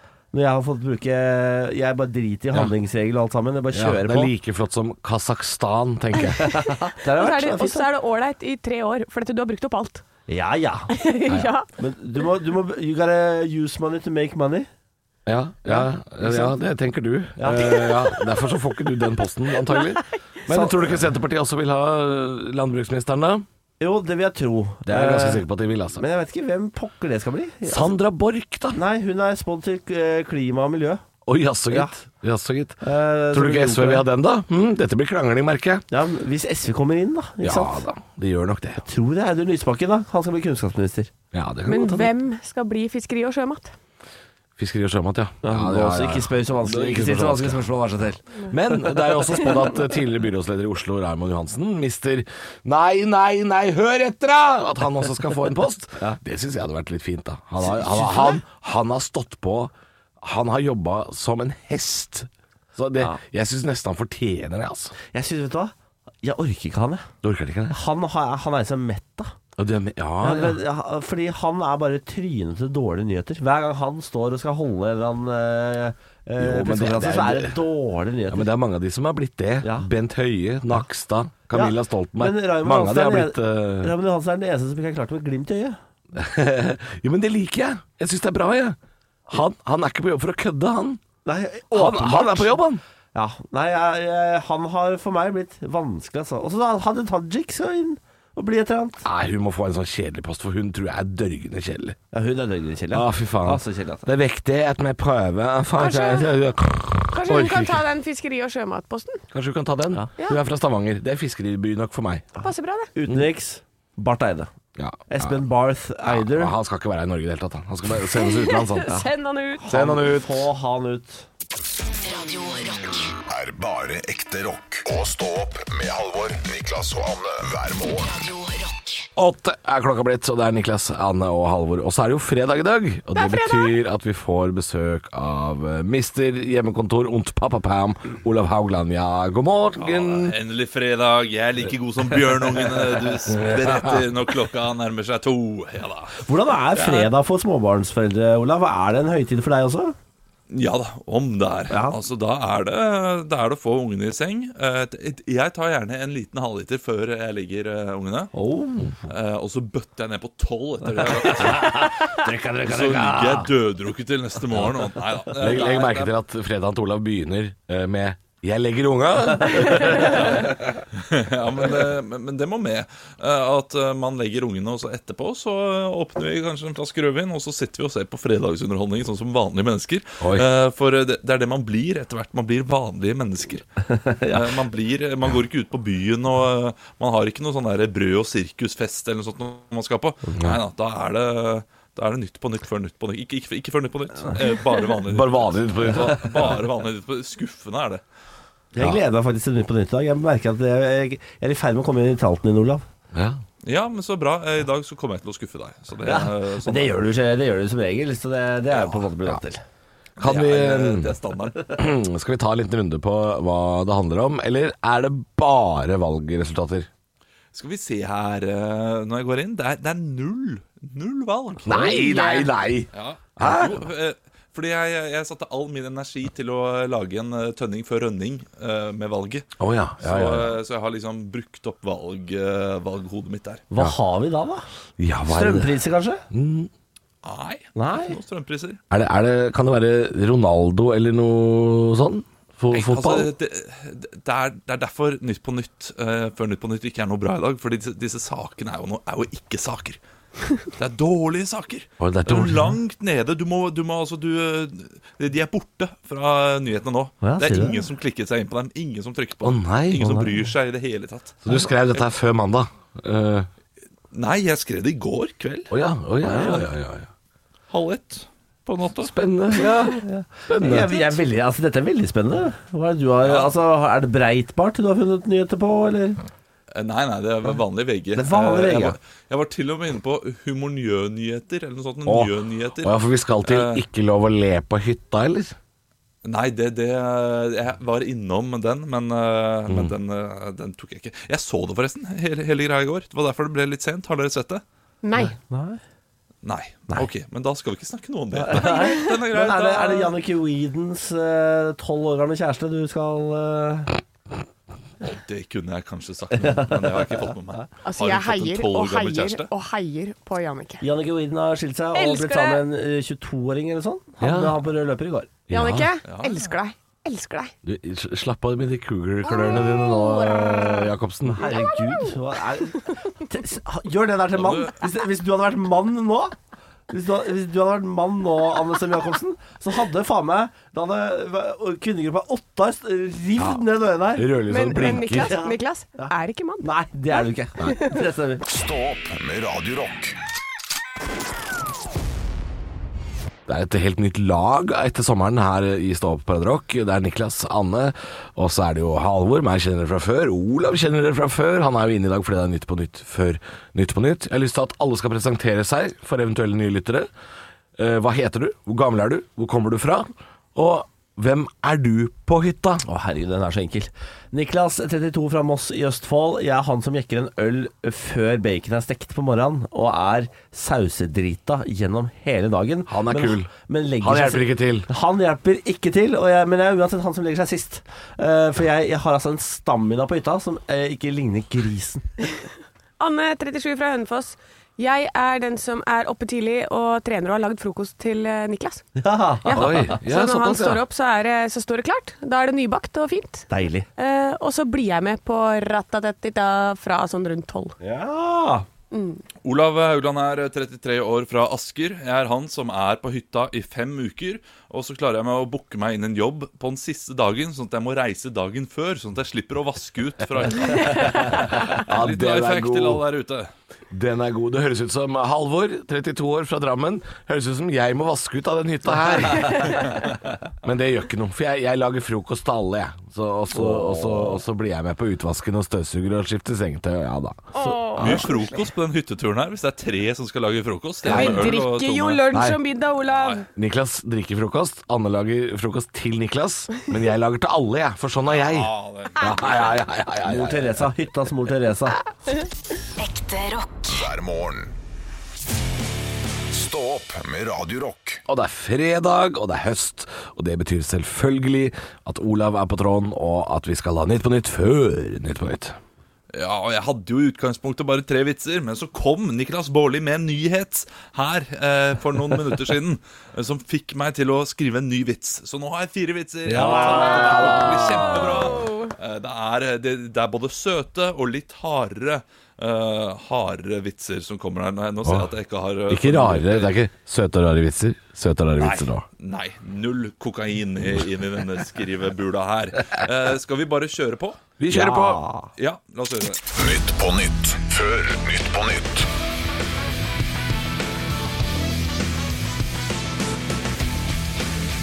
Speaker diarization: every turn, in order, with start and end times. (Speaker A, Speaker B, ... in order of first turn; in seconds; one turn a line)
Speaker A: 0.3-4.3
Speaker B: 3.7-6.5
Speaker A: 6.4-7.9
Speaker C: 7.1-10.0
Speaker A: 10.3-10.9
Speaker C: 10.9-11.7
Speaker B: 11.3-11.5
Speaker A: 11.8-14.7
Speaker B: 15.2-23.4
Speaker A: 15.7-16.5
Speaker A: 17.4-17.9
Speaker C: 19.7-20.0
Speaker A: 20.5-21.0
Speaker A: 23.8-27.9
Speaker B: 24.9-26.0
Speaker B: 27.6-28.8
Speaker A: 28.7-31.0
Speaker B: 31.2-35.8
Speaker A: 32.8-34.0
Speaker A: 35.9-37.8
Speaker B: 37.4-38.8
Speaker A: 38.8-41.1
Speaker B: 41.3-42.1
Speaker C: 41.6-43.7
Speaker B: 44.6-47.7
Speaker A: 45.4-49.5
Speaker B: 48.5-64.9
Speaker A: 57.6-58.4
Speaker A: 65.1-67.1
Speaker B: 67.2-67.8
Speaker A: 67.7-69.3
Speaker B: 69.6-70.6
Speaker A: 70.2-78.5
Speaker B: 76.4-77.6
Speaker B: 78.3-83.9
Speaker A: 79.6-79.9
Speaker A: 81.5-85.8
Speaker B: 86.1-88.8
Speaker B: 89.3-91.0
Speaker A: 91.2-92.6
Speaker B: 91.7-92.8
Speaker A: 93.1-99.1
Speaker B: 99.0-102.0
Speaker A: 102.1-104.1
Speaker B: 102.9-107.8
Speaker C: 105.8-106.3
Speaker C: 107.1-109.2
Speaker B: 109.3-112.3
Speaker C: 112.4-112.9
Speaker A: 112.9-114.5
Speaker B: 114.8-115.4
Speaker A: 115.1-116.5
Speaker B: 116.0-119.0
Speaker C: 118.1-119.7
Speaker A: 119.6-121.2
Speaker B: 119.7-120.5
Speaker D: 121.9-123.1
Speaker E: 123.3-128.1
Speaker D: 128.0-129.1
Speaker B: 129.2-140.3
Speaker C: 133.1-133.8
Speaker F: 139.8-147.1
Speaker A: 146.2-149.9
Speaker F: 150.5-158.3
Speaker A: 151.7-152.0
Speaker A: 158.3-159.0
Speaker F: 159.1-166.1
Speaker A: 161.0-163.5
Speaker B: 165.4-170.3
Speaker F: 169.8-183.6
Speaker B: 180.2-180.5
Speaker A: 183.9-184.6
Speaker F: 184.3-198.0
Speaker B: 195.1-196.5
Speaker A: 198.7-202.8
Speaker B: 203.1-203.4
Speaker F: 203.6-207.0
Speaker A: 206.0-209.6
Speaker F: 208.7-209.0
Speaker F: 210.2-211.8
Speaker B: 210.2-211.1
Speaker B: 211.8-216.9
Speaker F: 217.5-221.9
Speaker B: 221.6-223.8
Speaker C: 221.7-222.5
Speaker F: 222.9-229.5
Speaker B: 229.6-230.6
Speaker F: 230.0-233.6
Speaker A: 233.7-234.7
Speaker B: 235.0-235.8
Speaker A: 235.3-236.2
Speaker B: 236.3-236.7
Speaker F: 237.2-238.8
Speaker A: 237.8-238.2
Speaker B: 238.9-243.3
Speaker F: 242.7-250.0
Speaker F: 250.7-262.0
Speaker B: 252.0-252.8
Speaker A: 257.2-257.9
Speaker B: 259.4-260.1
Speaker A: 260.0-260.4
Speaker B: 261.4-263.5
Speaker F: 264.1-266.7
Speaker B: 265.7-267.1
Speaker F: 267.7-269.1
Speaker B: 269.0-271.2
Speaker A: 269.8-276.2
Speaker F: 273.2-273.5
Speaker F: 276.7-283.8
Speaker A: 278.1-279.0
Speaker B: 282.1-285.6
Speaker F: 286.2-294.6
Speaker B: 289.7-289.9
Speaker C: 295.0-295.3
Speaker A: 295.3-295.8
Speaker F: 296.4-300.1
Speaker A: 298.3-304.0
Speaker F: 305.0-309.5
Speaker A: 306.4-307.2
Speaker C: 307.8-310.8
Speaker A: 310.8-315.4
Speaker C: 311.9-312.6
Speaker B: 314.2-314.6
Speaker B: 315.5-316.0
Speaker C: 315.5-317.5
Speaker F: 316.0-316.4
Speaker B: 317.6-321.5
Speaker C: 319.2-320.9
Speaker A: 321.3-326.3
Speaker C: 321.4-322.1
Speaker F: 324.3-324.8
Speaker A: 326.9-338.4
Speaker B: 333.4-335.4
Speaker C: 334.5-337.9
Speaker E: 338.4-340.1
Speaker B: 343.4-357.1
Speaker B: 357.8-362.8
Speaker A: 362.8-382.1
Speaker B: 372.9-374.9
Speaker C: 383.0-388.9
Speaker A: 389.0-389.9
Speaker C: 389.4-397.7
Speaker B: 389.5-390.8
Speaker A: 393.5-393.9
Speaker A: 397.8-398.6
Speaker C: 398.9-399.2
Speaker F: 399.4-413.5
Speaker B: 411.7-413.0
Speaker B: 413.9-419.8
Speaker B: 420.6-428.2
Speaker A: 423.5-424.4
Speaker C: 427.5-428.4
Speaker F: 428.0-432.3
Speaker B: 431.0-431.6
Speaker C: 431.1-433.4
Speaker B: 432.3-432.6
Speaker F: 433.0-433.4
Speaker B: 433.5-440.9
Speaker F: 438.2-439.9
Speaker A: 440.2-442.0
Speaker D: 443.0-444.0
Speaker E: 443.9-444.7
Speaker E: 446.5-448.2
Speaker B: 448.3-455.8
Speaker F: 456.3-476.8
Speaker B: 466.5-468.2
Speaker A: 466.6-467.1
Speaker C: 468.1-468.9
Speaker B: 475.0-475.3
Speaker B: 475.9-479.1
Speaker F: 478.6-484.4
Speaker B: 484.6-485.2
Speaker A: 484.7-485.5
Speaker F: 485.6-486.4
Speaker E: 486.5-489.1